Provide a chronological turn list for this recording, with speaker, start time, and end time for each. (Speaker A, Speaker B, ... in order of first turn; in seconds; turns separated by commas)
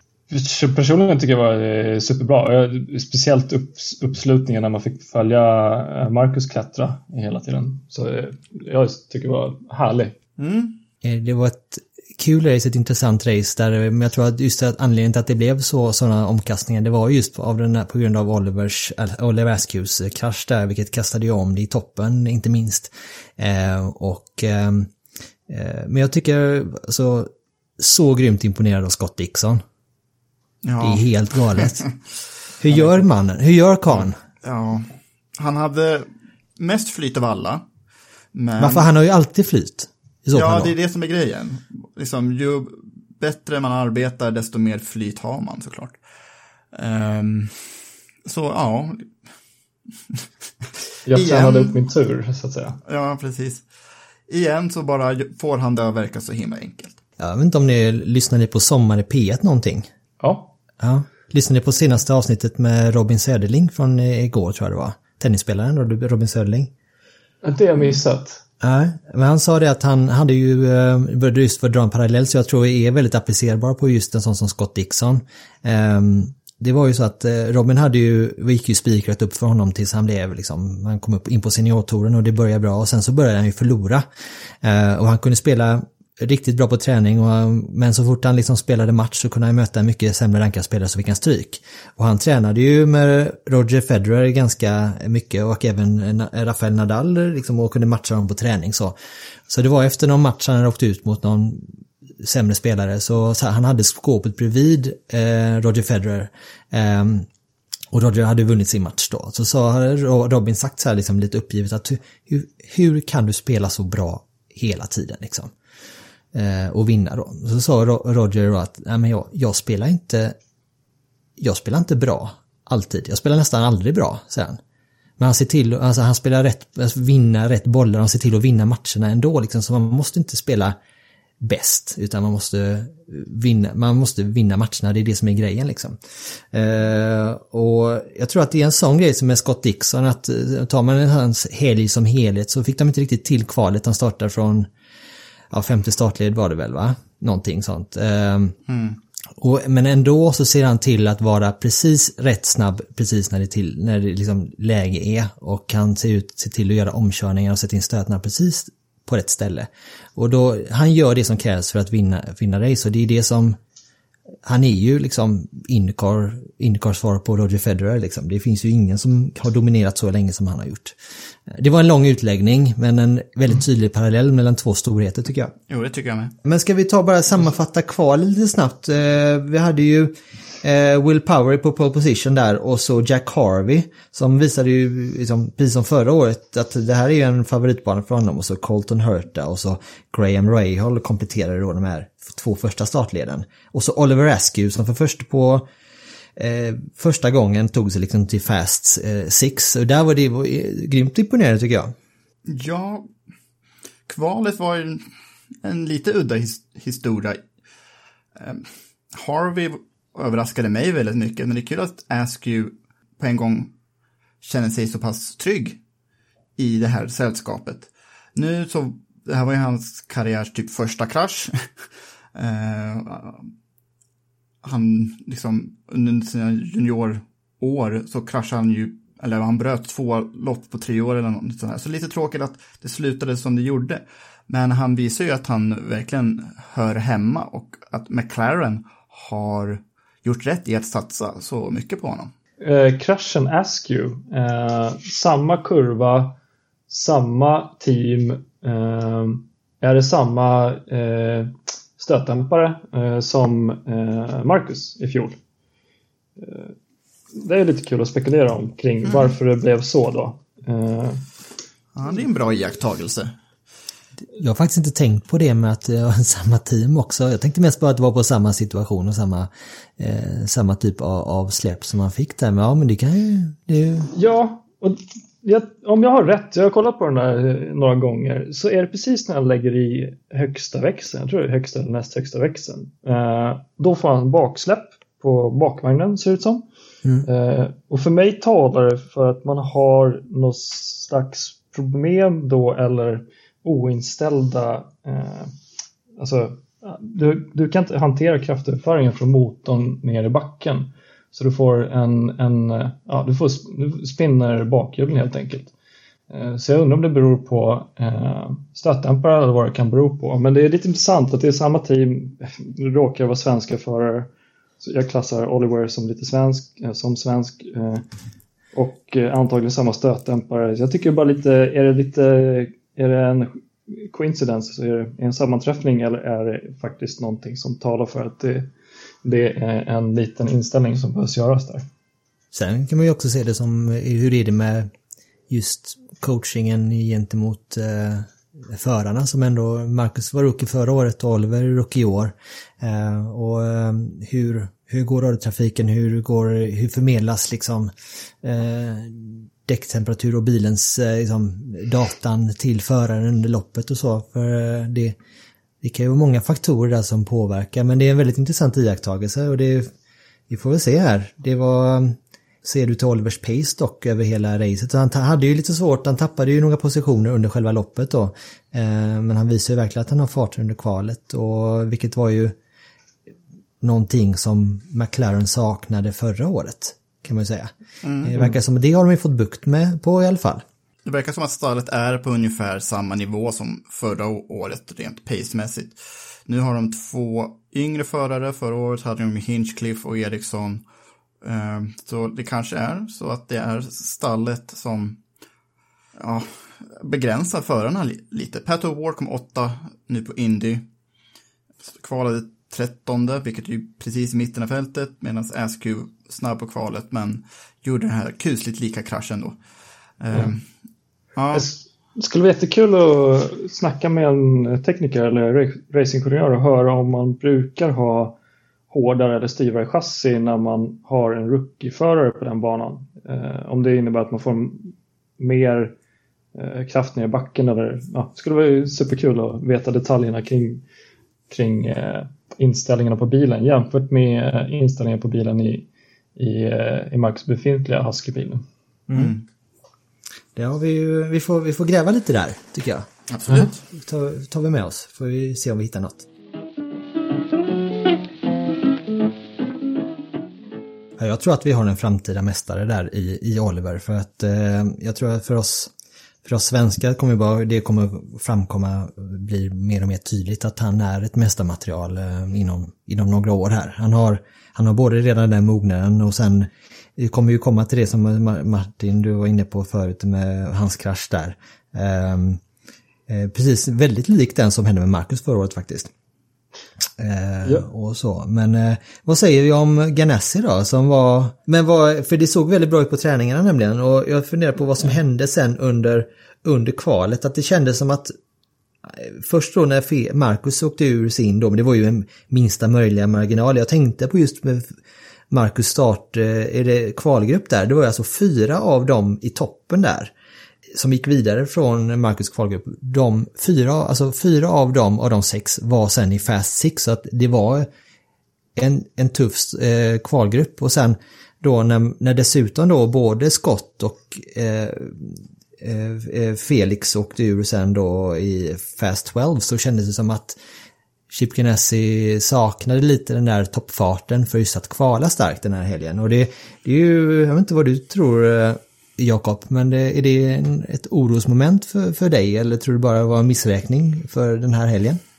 Speaker A: 0.3-10.1, Speaker B: 10.4-10.8, Speaker C: 11.0-24.9, Speaker C: 25.5-29.6, Speaker B: 30.6-31.9, Speaker C: 30.8-31.8, Speaker C: 32.6-34.2, Speaker B: 32.7-33.0, Speaker B: 34.0-37.6, Speaker B: 38.3-38.9, Speaker C: 38.6-40.7, Speaker B: 40.3-46.0, Speaker B: 46.7-47.7, Speaker B: 48.2-49.1, Speaker A: 51.0-52.8, Speaker B: 51.1-51.8, Speaker B: 52.8-53.6, Speaker B: 54.3-57.0, Speaker C: 57.2-59.9, Speaker A: 60.2-60.5, Speaker C: 60.8-66.7, Speaker A: 67.4-68.4, Speaker C: 68.6-84.0, Speaker C: 84.6-98.9, Speaker C: 99.5-101.7, Speaker C: 102.2-107.3, Speaker C: 107.9-115.5, Speaker C: 116.3-120.3, Speaker C: 121.4-124.6, Speaker C: 125.2-130.8, Speaker C: 131.4-144.7, Speaker C: 145.5-148.6, Speaker B: 148.7-149.0, Speaker C: 149.4-163.6, Speaker C: 164.4-171.0, Speaker C: 171.5-175.5, Speaker B: 175.7-176.3, Speaker C: 176.4-195.7, Speaker C: 196.4-201.9, Speaker B: 202.5-203.1, Speaker B: 204.1-205.0, Speaker B: 205.6-207.4, Speaker B: 208.4-213.7, Speaker B: 214.4-215.8, Speaker B: 216.6-221.5, Speaker B: 222.3-223.5, Speaker B: 224.6-242.3, Speaker A: 242.6-246.3, Speaker A: 246.9-255.3, Speaker A: 256.4-256.7, Speaker A: 257.3-261.2, Speaker B: 259.1-259.3, Speaker B: 261.9-263.3, Speaker C: 264.4-274.1, Speaker A: 274.1-286.6, Speaker A: 287.2-295.5, Speaker A: 296.2-305.7, Speaker A: 306.3-314.3, Speaker A: 314.8-318.0, Speaker A: 318.7-328.7, Speaker A: 329.2-331.9, Speaker C: 332.5-334.9, Speaker C: 335.5-355.1, Speaker C: 355.8-359.9, Speaker C: 360.5-372.6, Speaker C: 373.8-380.6, Speaker B: 378.0-378.5, Speaker B: 381.0-390.8, Speaker B: 391.4-395.2, Speaker B: 396.2-400.8, Speaker B: 401.8-409.6, Speaker B: 410.2-410.6, Speaker B: 411.4-411.6, Speaker A: 411.5-418.4, Speaker A: 418.9-425.9, Speaker A: 426.5-430.8, Speaker A: 431.5-438.6, Speaker C: 439.1-439.4, Speaker B: 439.1-439.4, Speaker C: 440.5-446.3, Speaker B: 443.3-443.7, Speaker C: 451.2-455.9, Speaker C: 456.4-472.6, Speaker C: 473.3-476.1, Speaker C: 477.2-488.3, Speaker C: 489.0-494.9, Speaker C: 495.5-500.3, Speaker C: 500.9-507.9, Speaker C: 508.8-520.6, Speaker C: 521.3-535.2